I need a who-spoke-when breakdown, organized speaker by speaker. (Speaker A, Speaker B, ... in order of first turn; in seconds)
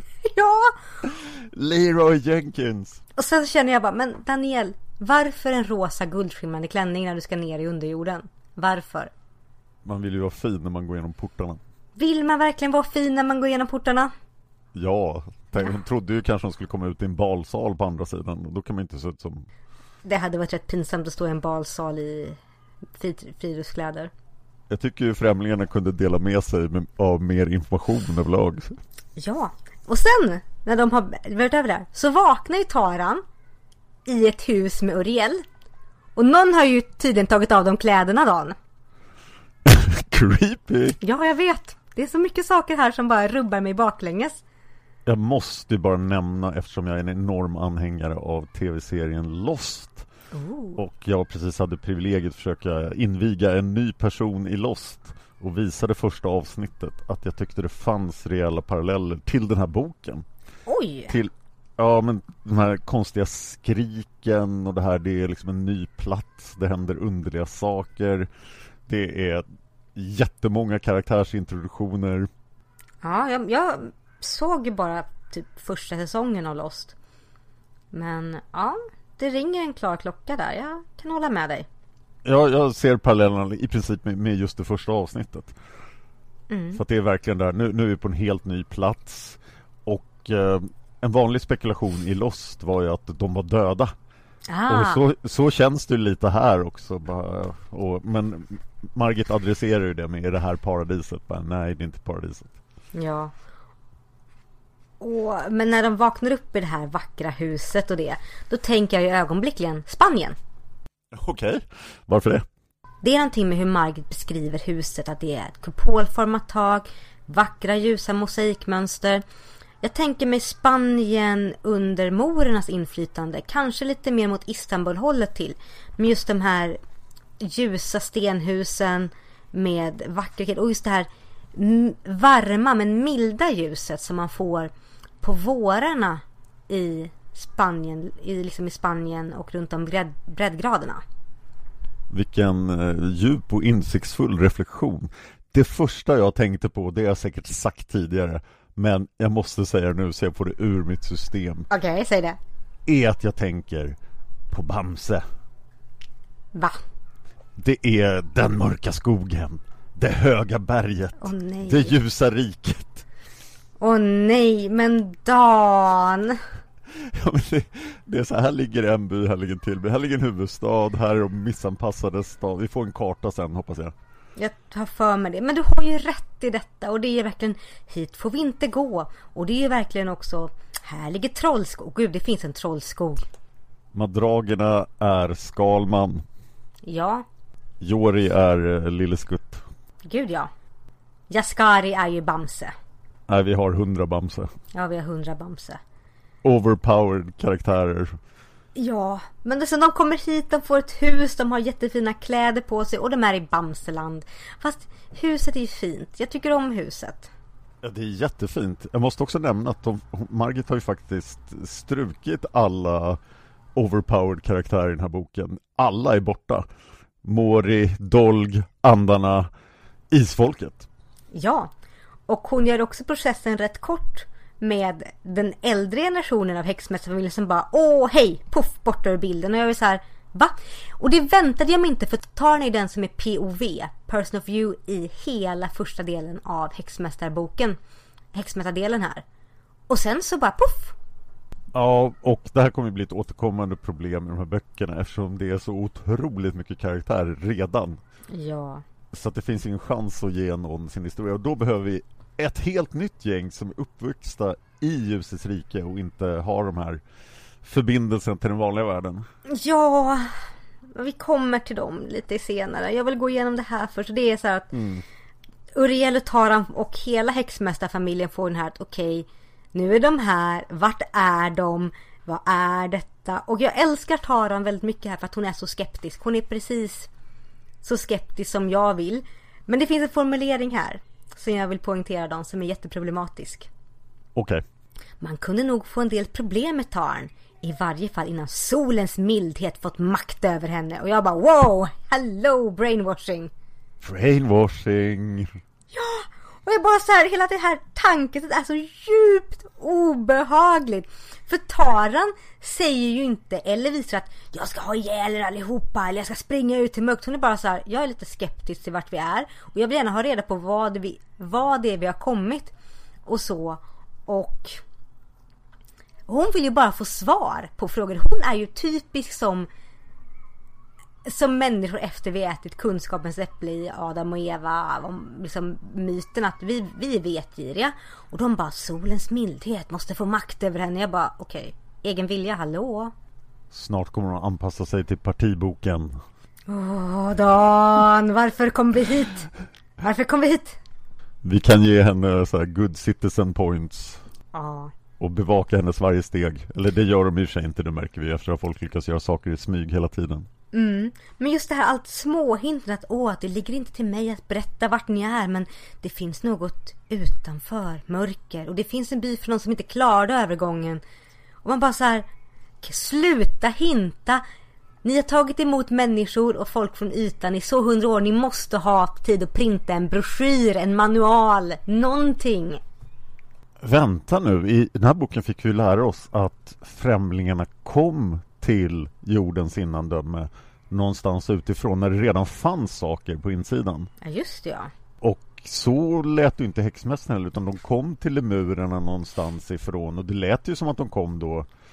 Speaker A: 0.2-0.8, 3.1-9.1, 12.0-14.1, 20.0-22.4, 23.0-24.1, 29.2-33.2, 34.0-35.4, 36.1-38.5, 41.0-44.4, 50.3-50.8, 60.7-61.2, 73.0-76.9, 77.9-81.7, 86.5-86.8, 94.5-95.0, 102.9-103.3, 105.0-110.4, 113.0-119.2, 119.8-126.8, 127.4-141.0, 151.7-152.4, 156.5-156.8, 161.2-161.9, 163.8-166.4, 174.4-183.3, 186.8-187.2, 190.1-190.5, 191.3-192.7, 194.7-195.8, 198.8-207.3, 221.3-221.7, 222.3-237.8, 238.3-239.2, 239.9-240.9, 248.3-248.8, 259.5-260.3, 260.9-264.7, 265.7-277.1, 277.8-283.7, 285.2-293.5, 295.9-312.7, 313.2-314.8, 316.3-319.7, 321.2-333.1, 336.7-339.5, 340.0-340.8, 344.5-344.9, 350.7-361.0, 361.6-362.3, 362.8-364.4, 365.0-372.8, 384.2-384.9
Speaker B: 1.0-3.0, 9.8-11.6, 14.7-19.5, 24.7-28.8, 39.6-41.0, 45.0-50.1, 50.8-60.2, 61.1-68.3, 68.9-72.3, 82.2-85.5, 86.7-93.9, 94.7-102.5, 111.1-112.5, 142.1-151.7, 152.8-154.0, 154.5-155.2, 157.6-163.0, 166.9-173.9, 183.9-186.2, 187.8-189.6, 193.3-194.5, 196.4-198.2, 207.8-213.2, 213.7-216.7, 217.2-219.5, 220.1-220.9, 241.7-248.0, 249.1-257.0, 257.6-259.3, 264.7-265.0, 284.3-284.6, 294.0-295.6, 333.7-336.2, 341.4-344.2, 345.2-350.5, 373.8-384.1, 385.2-391.7